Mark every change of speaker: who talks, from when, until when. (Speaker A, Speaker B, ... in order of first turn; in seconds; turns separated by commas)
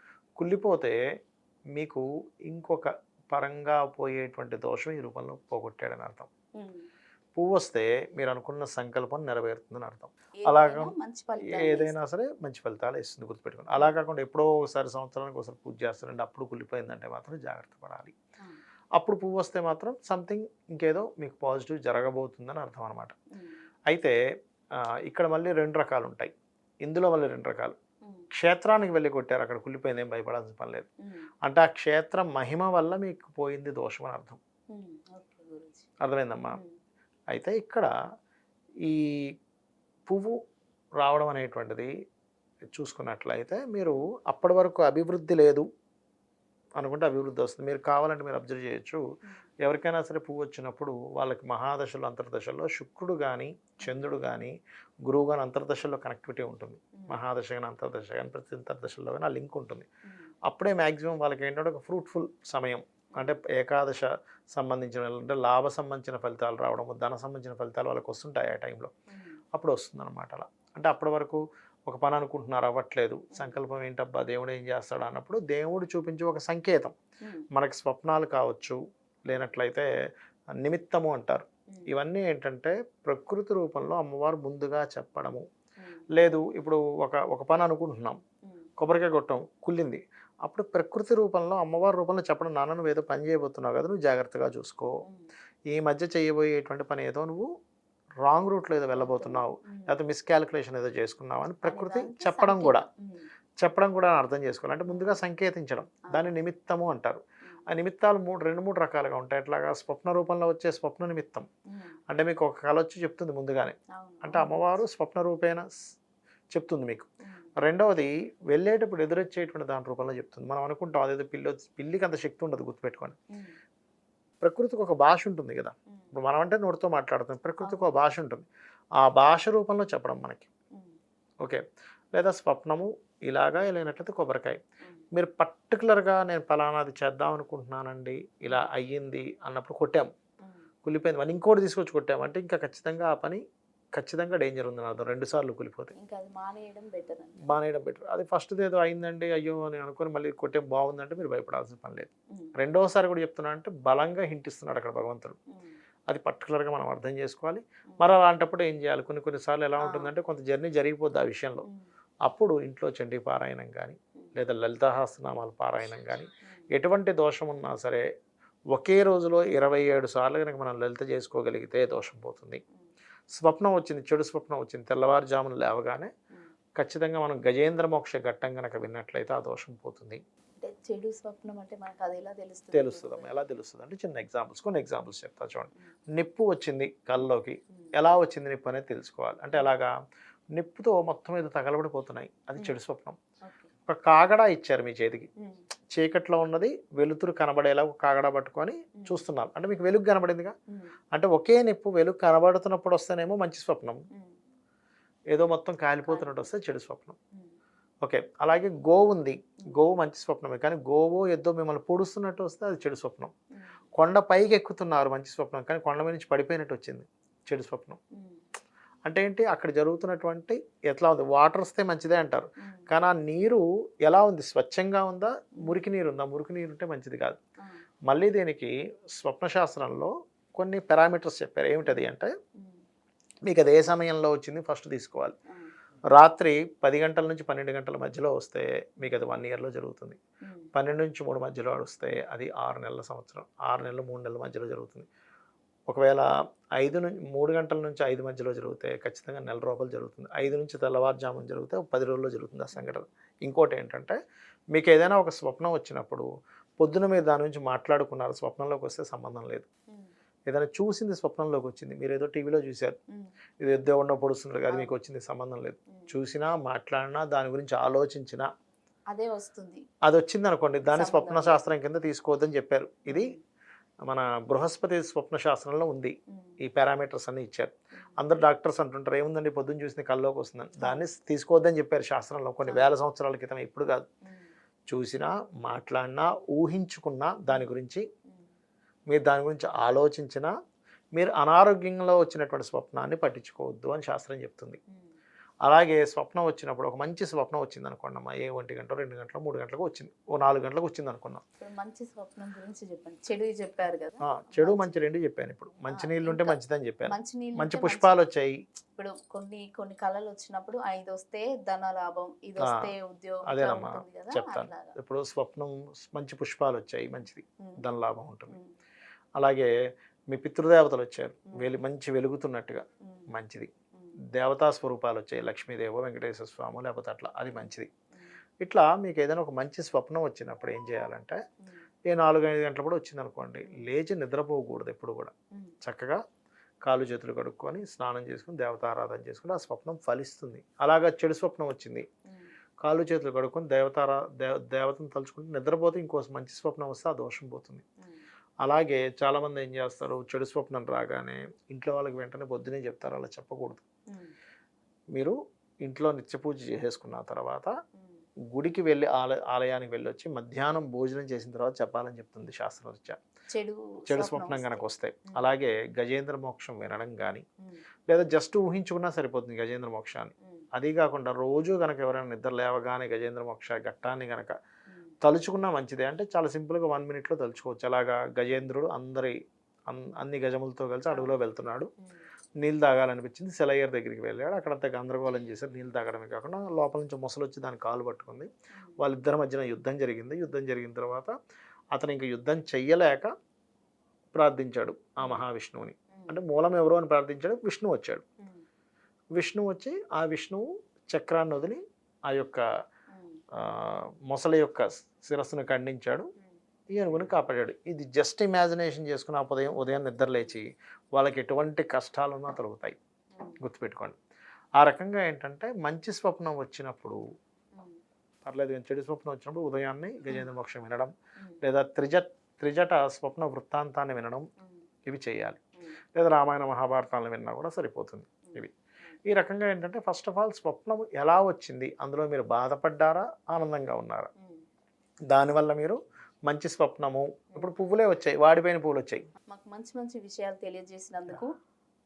Speaker A: 0.4-0.9, Speaker A: 1.7-6.3, Speaker B: 6.5-6.8, Speaker A: 7.3-18.1, Speaker B: 10.4-11.9, Speaker A: 18.9-23.1, Speaker A: 23.9-24.1, Speaker A: 24.8-26.3, Speaker A: 26.8-27.7, Speaker A: 28.3-30.9, Speaker A: 31.4-34.4, Speaker B: 34.7-35.9, Speaker A: 36.0-36.6, Speaker A: 37.3-37.9, Speaker A: 38.8-39.3, Speaker A: 40.1-40.4, Speaker A: 41.0-41.9, Speaker A: 42.7-45.6, Speaker A: 46.8-49.0, Speaker A: 49.6-59.9, Speaker A: 60.5-68.9, Speaker B: 69.1-69.4, Speaker A: 69.5-76.9, Speaker A: 77.5-79.9, Speaker A: 80.6-85.4, Speaker A: 86.1-88.2, Speaker A: 88.8-95.0, Speaker A: 95.7-97.5, Speaker A: 98.2-102.8, Speaker B: 99.0-99.9, Speaker B: 101.6-103.3, Speaker A: 103.6-111.5, Speaker B: 104.9-105.2, Speaker A: 112.1-115.7, Speaker B: 113.9-114.6, Speaker A: 116.5-117.1, Speaker A: 117.6-123.2, Speaker A: 124.4-128.4, Speaker B: 127.6-128.0, Speaker A: 129.0-130.5, Speaker A: 132.1-134.6, Speaker A: 135.1-140.1, Speaker A: 140.8-143.4, Speaker A: 143.9-145.9, Speaker B: 145.9-147.5, Speaker A: 147.4-155.4, Speaker A: 156.1-161.7, Speaker B: 159.8-160.1, Speaker A: 162.2-168.0, Speaker A: 168.7-172.6, Speaker A: 173.3-176.1, Speaker A: 176.8-180.2, Speaker B: 180.6-183.3, Speaker A: 182.7-189.9, Speaker A: 190.5-193.2, Speaker B: 193.4-193.7, Speaker A: 193.9-195.3, Speaker A: 195.9-200.5, Speaker A: 201.1-204.0, Speaker A: 205.3-207.2, Speaker B: 206.1-206.4, Speaker A: 208.0-213.3, Speaker A: 214.0-218.0, Speaker A: 219.1-227.4, Speaker A: 228.1-232.3, Speaker B: 231.9-232.8, Speaker A: 233.4-235.3, Speaker A: 236.1-240.2, Speaker A: 240.7-245.1, Speaker A: 245.9-254.2, Speaker B: 252.7-253.0, Speaker A: 254.7-256.3, Speaker A: 256.8-259.7, Speaker A: 260.5-262.9, Speaker A: 263.6-268.5, Speaker B: 269.1-269.8, Speaker A: 270.0-273.3, Speaker B: 270.9-271.6, Speaker B: 273.1-273.4, Speaker A: 274.1-284.1, Speaker B: 282.6-282.9, Speaker A: 284.9-288.0, Speaker A: 289.1-290.5, Speaker A: 291.1-294.8, Speaker A: 295.6-301.4, Speaker B: 301.6-305.0, Speaker A: 304.2-308.6, Speaker B: 305.9-308.2, Speaker B: 308.9-314.9, Speaker A: 312.6-312.9, Speaker A: 313.5-318.6, Speaker A: 319.4-319.7, Speaker A: 320.3-323.7, Speaker A: 324.3-327.9, Speaker A: 328.6-331.4, Speaker A: 332.1-336.2, Speaker B: 333.6-333.9, Speaker A: 336.8-342.1, Speaker A: 342.8-347.8, Speaker A: 348.6-353.8, Speaker A: 355.1-357.7, Speaker A: 358.5-363.2, Speaker B: 363.5-365.5, Speaker A: 364.1-367.4, Speaker A: 368.1-374.5, Speaker A: 375.2-379.3, Speaker A: 379.9-381.9, Speaker A: 382.6-391.3, Speaker A: 391.9-393.3, Speaker A: 394.3-398.2, Speaker B: 396.1-396.4, Speaker A: 399.3-402.6, Speaker B: 403.1-403.4, Speaker A: 403.6-406.3, Speaker A: 406.9-412.9, Speaker A: 413.6-414.1, Speaker A: 414.8-417.2, Speaker A: 418.4-421.1, Speaker A: 421.6-424.4, Speaker A: 425.1-425.6, Speaker A: 426.1-428.7, Speaker A: 429.3-434.3, Speaker A: 435.3-439.2, Speaker B: 439.5-441.5